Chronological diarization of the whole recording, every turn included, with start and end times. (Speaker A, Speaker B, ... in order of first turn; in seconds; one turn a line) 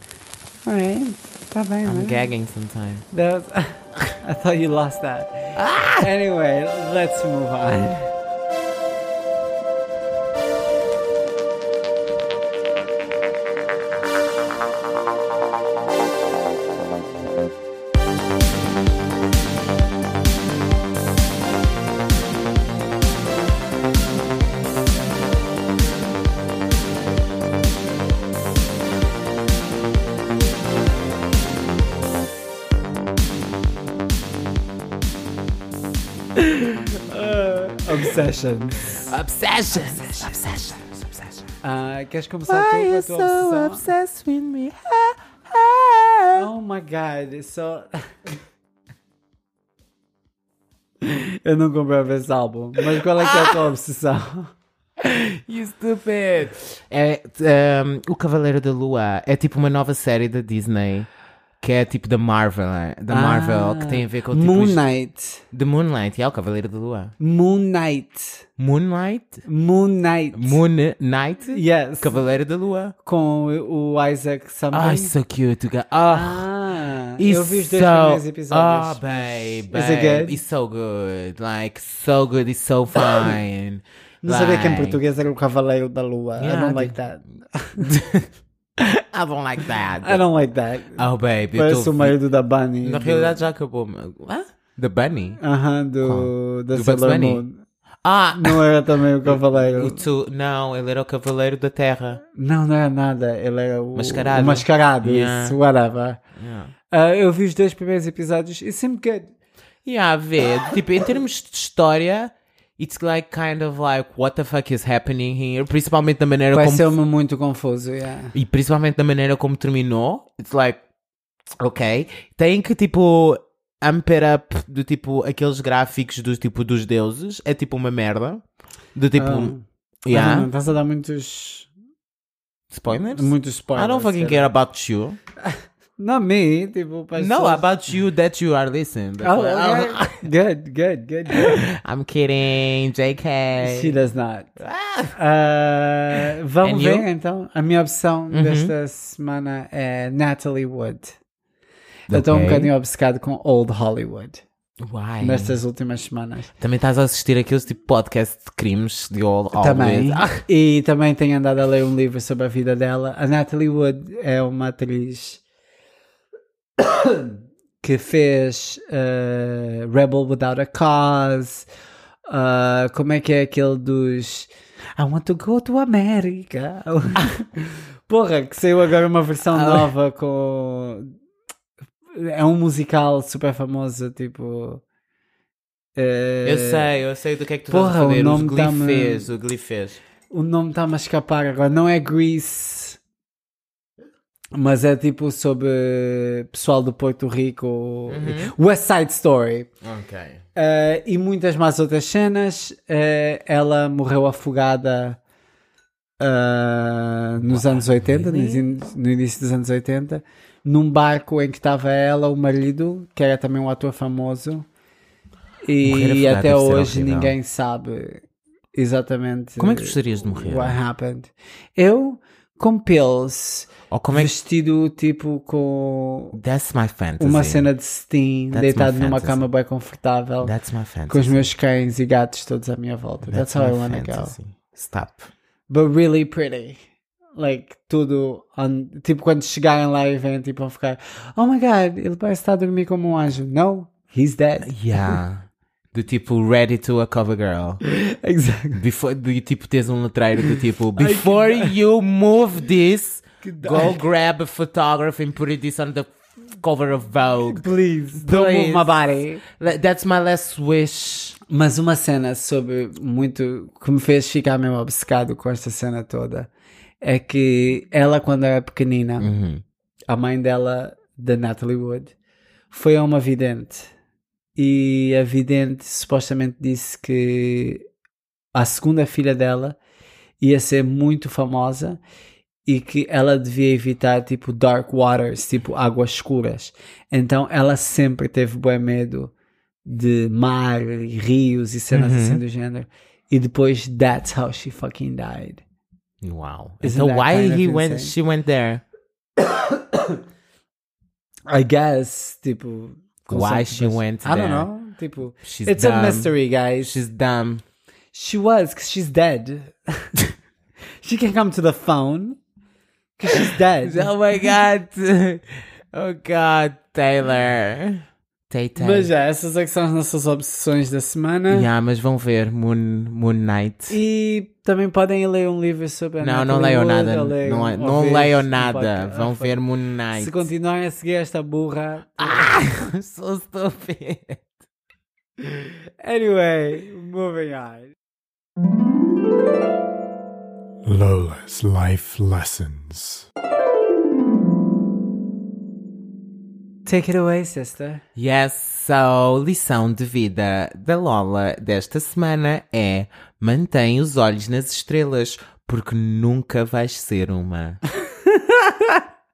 Speaker A: 0.7-2.3
Speaker B: 1.9-3.0
Speaker A: 3.1-8.1
Speaker B: 5.5-6.1
Speaker B: 36.4-36.7
Speaker A: 37.1-39.0
Speaker B: 38.9-41.5
Speaker A: 41.6-43.9
Speaker B: 42.5-46.5
Speaker A: 46.3-47.9
Speaker A: 51.0-54.5
Speaker B: 53.2-53.6
Speaker B: 55.0-61.1
Speaker B: 61.6-64.8
Speaker A: 63.1-65.4
Speaker B: 65.5-67.1
Speaker A: 67.2-68.5
Speaker B: 68.6-69.4
Speaker A: 69.4-70.6
Speaker B: 70.3-72.9
Speaker A: 71.5-72.2
Speaker A: 73.0-75.1
Speaker B: 74.7-76.5
Speaker A: 76.1-80.4
Speaker B: 77.2-85.0
Speaker A: 84.2-87.9
Speaker B: 86.4-87.0
Speaker B: 87.8-90.2
Speaker A: 90.0-93.4
Speaker B: 91.0-92.2
Speaker B: 92.8-95.4
Speaker A: 95.4-97.6
Speaker B: 96.0-97.4
Speaker B: 98.0-98.6
Speaker A: 98.3-100.0
Speaker B: 99.2-102.2
Speaker A: 102.3-106.2
Speaker B: 103.9-105.6
Speaker B: 106.3-106.7
Speaker A: 106.9-109.3
Speaker B: 109.8-116.9
Speaker A: 116.5-118.3
Speaker B: 118.3-120.8
Speaker B: 121.6-128.4
Speaker B: 128.9-129.5
Speaker A: 129.2-131.7
Speaker B: 130.0-130.5
Speaker B: 132.7-135.2
Speaker A: 133.1-134.5
Speaker A: 135.4-137.7
Speaker B: 137.2-140.2
Speaker A: 139.2-141.6
Speaker B: 141.3-143.9
Speaker A: 143.6-144.5
Speaker B: 144.6-145.2
Speaker A: 145.1-151.2
Speaker B: 146.6-147.1
Speaker B: 148.3-148.7
Speaker B: 152.1-152.7
Speaker A: 152.1-154.4
Speaker B: 154.8-155.6
Speaker A: 155.2-156.5
Speaker B: 156.6-160.4
Speaker A: 159.6-165.4
Speaker A: 166.8-171.7
Speaker A: 172.3-181.1
Speaker B: 179.5-179.9
Speaker A: 182.1-184.8
Speaker A: 185.9-186.8
Speaker B: 186.4-190.0
Speaker A: 187.7-189.3
Speaker A: 190.3-193.0
Speaker A: 194.5-199.7
Speaker B: 198.1-198.5
Speaker B: 199.8-200.4
Speaker A: 200.5-205.2
Speaker A: 206.2-214.7
Speaker B: 207.4-208.6
Speaker A: 215.6-226.4
Speaker B: 215.8-217.3
Speaker B: 219.6-220.8
Speaker B: 223.9-224.3
Speaker B: 226.3-227.7
Speaker A: 227.2-230.5
Speaker B: 228.5-229.4
Speaker B: 230.4-231.5
Speaker A: 231.1-234.3
Speaker B: 233.2-235.3
Speaker A: 235.7-236.8
Speaker A: 237.3-245.1
Speaker B: 244.6-247.8
Speaker A: 247.8-248.8
Speaker B: 248.7-257.6
Speaker A: 251.0-251.8
Speaker A: 253.4-254.0
Speaker A: 257.5-259.4
Speaker B: 258.2-261.4
Speaker A: 261.5-266.5
Speaker A: 267.0-269.3
Speaker B: 269.2-269.6
Speaker A: 270.1-272.1
Speaker A: 272.7-273.9
Speaker A: 274.6-277.8
Speaker A: 278.5-279.8
Speaker A: 280.4-282.0
Speaker A: 282.6-289.3
Speaker A: 289.9-295.6
Speaker B: 291.9-292.4
Speaker B: 296.2-298.8
Speaker A: 296.8-298.1
Speaker A: 301.5-307.0
Speaker B: 303.3-304.7
Speaker B: 305.4-307.6
Speaker A: 308.1-310.1
Speaker A: 311.0-312.4
Speaker A: 313.2-314.1
Speaker B: 313.4-319.1
Speaker A: 318.8-321.7
Speaker B: 321.5-324.0
Speaker A: 323.9-329.6
Speaker B: 326.2-330.5
Speaker A: 330.1-332.5
Speaker B: 332.2-334.5
Speaker A: 335.5-337.9
Speaker C: 340.8-343.3
Speaker A: 346.9-348.0
Speaker B: 348.1-357.8
Speaker A: 358.2-359.0